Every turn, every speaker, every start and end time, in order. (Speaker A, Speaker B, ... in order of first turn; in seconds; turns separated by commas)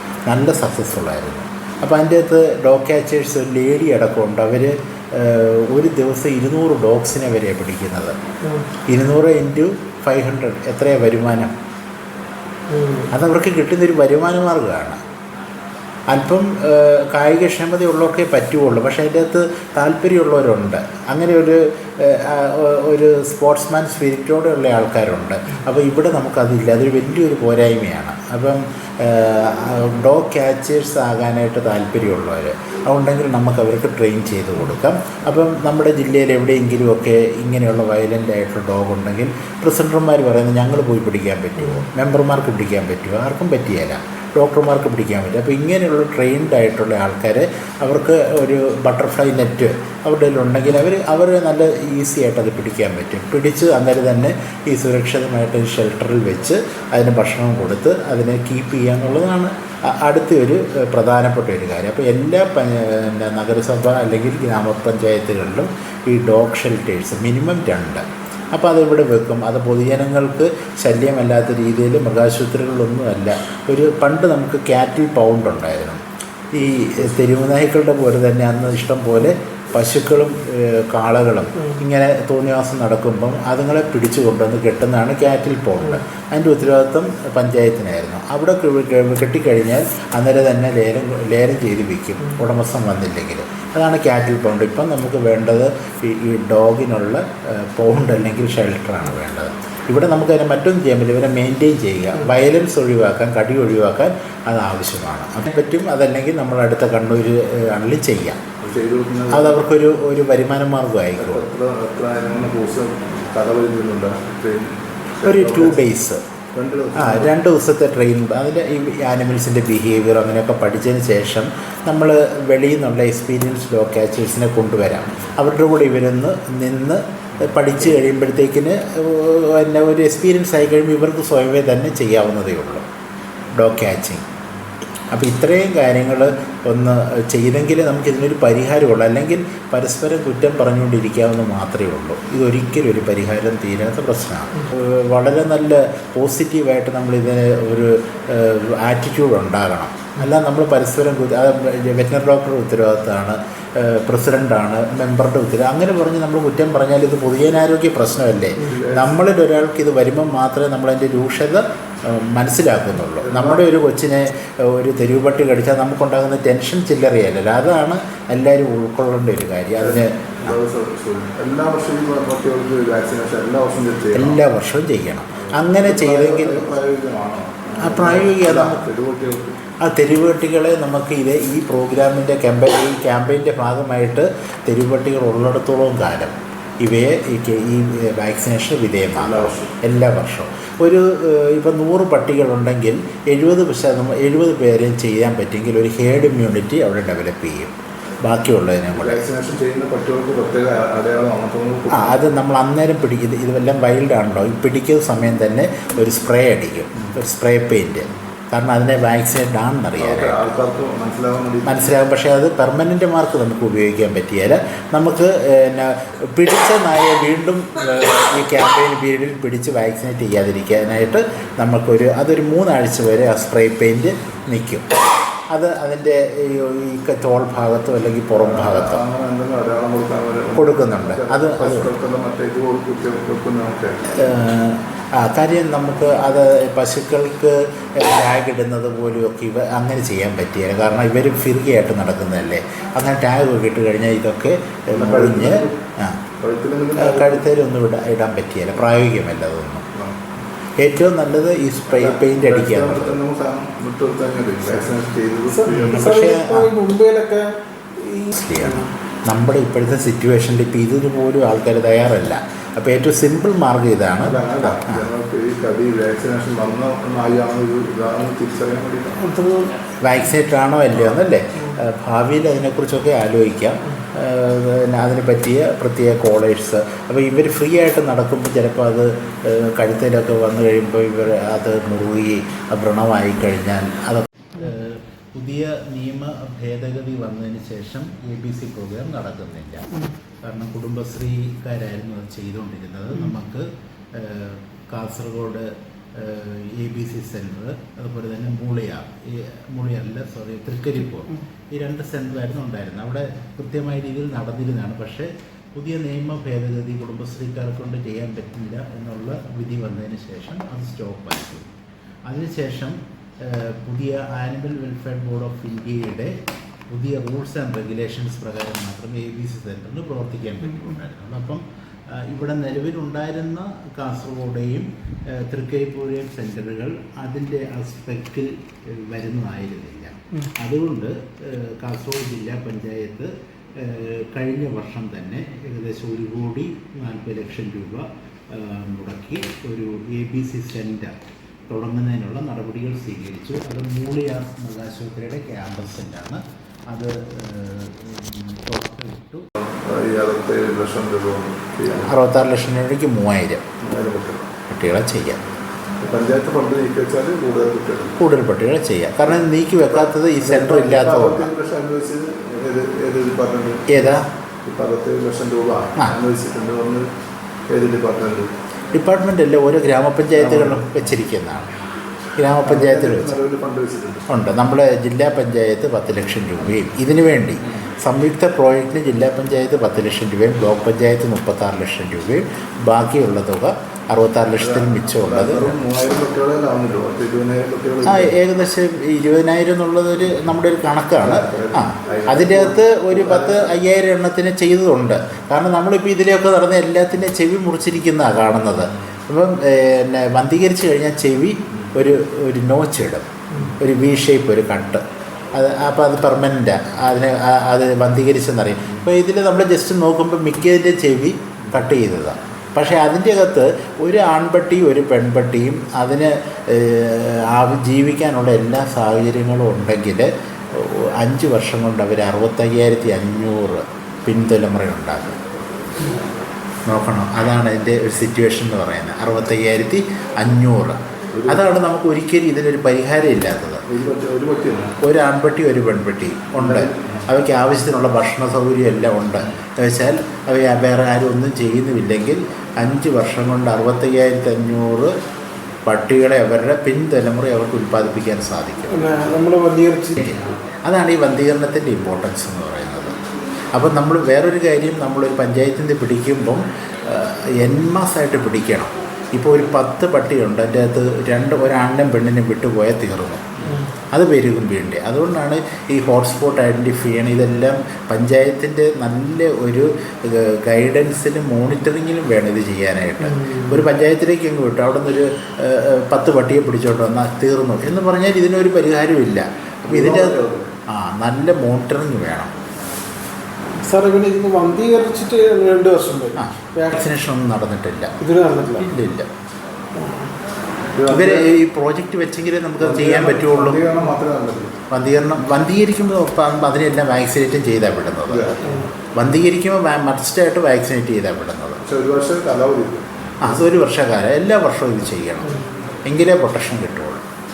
Speaker A: 0.3-8.2, Speaker A: 8.9-11.5, Speaker B: 12.7-13.1, Speaker A: 13.1-15.0, Speaker A: 16.1-108.4, Speaker C: 108.6-109.6, Speaker A: 109.3-111.5, Speaker C: 111.2-115.8, Speaker A: 115.2-116.2, Speaker C: 116.5-117.3, Speaker A: 117.0-132.8, Speaker A: 133.6-134.2, Speaker A: 135.1-170.6, Speaker C: 158.6-159.2, Speaker C: 163.2-163.6, Speaker C: 169.8-174.4, Speaker A: 174.1-176.7, Speaker C: 175.4-179.6, Speaker A: 177.8-178.8, Speaker A: 179.8-199.2, Speaker C: 189.1-189.7, Speaker C: 198.9-202.3, Speaker A: 201.9-210.6, Speaker C: 210.0-212.0, Speaker A: 211.7-224.8, Speaker A: 225.5-229.0, Speaker C: 228.4-234.0, Speaker A: 230.6-231.9, Speaker A: 234.1-246.2, Speaker C: 244.9-245.8, Speaker C: 246.4-247.4, Speaker A: 247.0-249.9, Speaker A: 250.8-253.2, Speaker C: 251.9-256.1, Speaker B: 255.5-258.9, Speaker A: 255.7-256.7, Speaker A: 258.3-265.1, Speaker C: 264.2-269.2, Speaker B: 269.2-269.7, Speaker A: 270.0-311.7, Speaker A: 312.3-316.4, Speaker A: 316.9-349.5, Speaker C: 349.6-352.1, Speaker A: 352.0-353.6, Speaker C: 353.8-354.5, Speaker A: 354.7-355.4, Speaker C: 356.0-358.2, Speaker A: 358.2-361.5, Speaker C: 359.9-367.1, Speaker A: 363.9-364.3, Speaker C: 367.7-368.5, Speaker A: 368.9-371.7, Speaker C: 370.4-370.9, Speaker A: 372.4-373.3, Speaker C: 372.6-374.2, Speaker A: 374.3-385.8, Speaker C: 384.6-388.3, Speaker A: 388.1-425.4, Speaker C: 391.2-393.8, Speaker A: 426.9-433.9, Speaker C: 431.3-431.7, Speaker C: 433.9-434.9, Speaker A: 435.0-445.1, Speaker C: 436.6-437.2, Speaker A: 445.9-449.2, Speaker B: 448.9-450.3, Speaker A: 450.2-453.2, Speaker A: 453.7-463.6, Speaker A: 464.1-480.4, Speaker C: 479.9-480.7, Speaker A: 480.9-482.5, Speaker B: 483.8-486.9, Speaker A: 486.4-488.2, Speaker B: 488.2-488.9, Speaker A: 488.8-489.3, Speaker B: 490.0-490.3, Speaker C: 490.9-491.5, Speaker A: 491.1-493.8, Speaker C: 492.8-494.8, Speaker A: 494.9-498.6, Speaker C: 498.3-498.8, Speaker A: 499.1-501.8, Speaker C: 501.8-503.5, Speaker A: 503.4-507.2